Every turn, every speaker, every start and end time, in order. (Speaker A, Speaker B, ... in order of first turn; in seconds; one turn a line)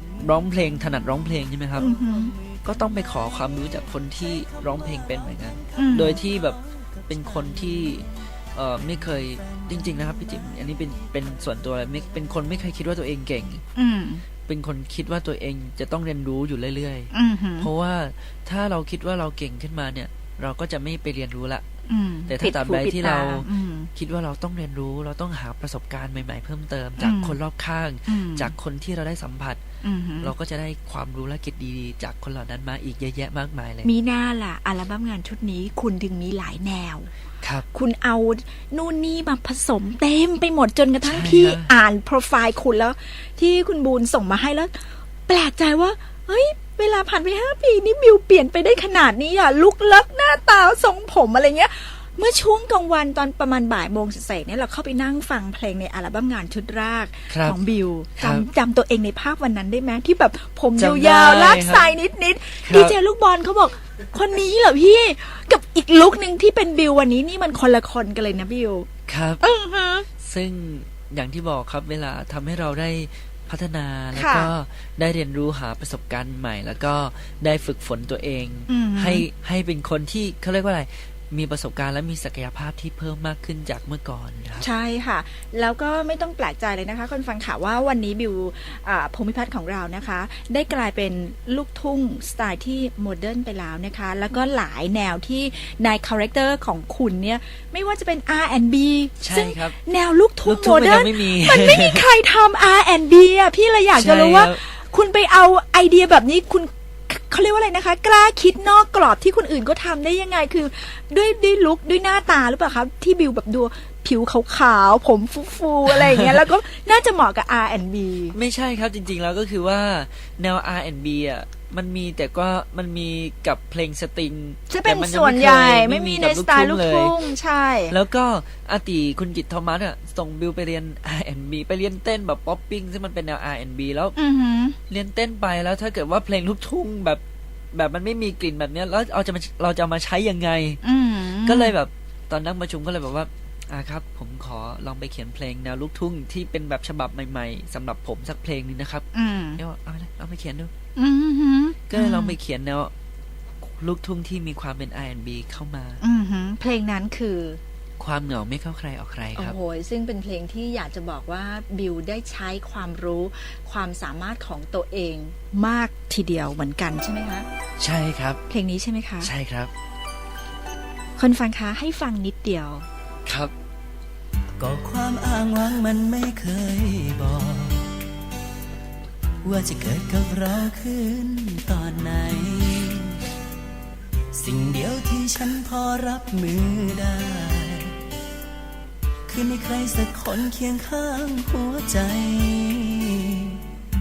Speaker A: 0.2-1.9
Speaker B: 1.8-2.3
Speaker A: 2.6-13.6
Speaker B: 5.8-6.2
Speaker B: 13.7-14.2
Speaker A: 14.5-21.6
Speaker B: 17.1-17.7
Speaker B: 21.9-23.9
Speaker A: 22.3-29.6
Speaker B: 27.0-27.4
Speaker B: 28.1-28.5
Speaker B: 29.8-30.3
Speaker A: 30.2-33.9
Speaker B: 33.8-37.1
Speaker A: 37.4-37.7
Speaker B: 37.7-68.9
Speaker A: 41.0-41.7
Speaker A: 57.3-57.6
Speaker A: 58.2-58.5
Speaker A: 60.8-61.9
Speaker A: 62.6-62.9
Speaker A: 69.1-69.4
Speaker B: 69.4-70.0
Speaker A: 70.2-84.7
Speaker B: 74.1-74.5
Speaker B: 78.7-79.2
Speaker B: 84.6-118.4
Speaker A: 99.2-99.8
Speaker A: 100.4-102.0
Speaker A: 104.0-104.6
Speaker A: 118.3-127.1
Speaker B: 124.7-127.9
Speaker A: 127.9-134.1
Speaker B: 134.2-134.8
Speaker A: 134.9-137.2
Speaker A: 137.7-140.8
Speaker B: 140.8-141.7
Speaker A: 141.3-150.7
Speaker B: 149.1-149.6
Speaker B: 150.9-152.4
Speaker A: 151.9-152.9
Speaker A: 153.6-156.0
Speaker B: 156.0-157.6
Speaker A: 158.0-159.6
Speaker B: 159.3-167.5
Speaker A: 167.8-168.4
Speaker B: 168.5-169.3
Speaker A: 169.2-169.7
Speaker B: 171.2-172.9
Speaker A: 173.2-173.5
Speaker C: 174.6-177.9
Speaker C: 179.4-183.2
Speaker C: 184.3-187.9
Speaker C: 189.3-193.6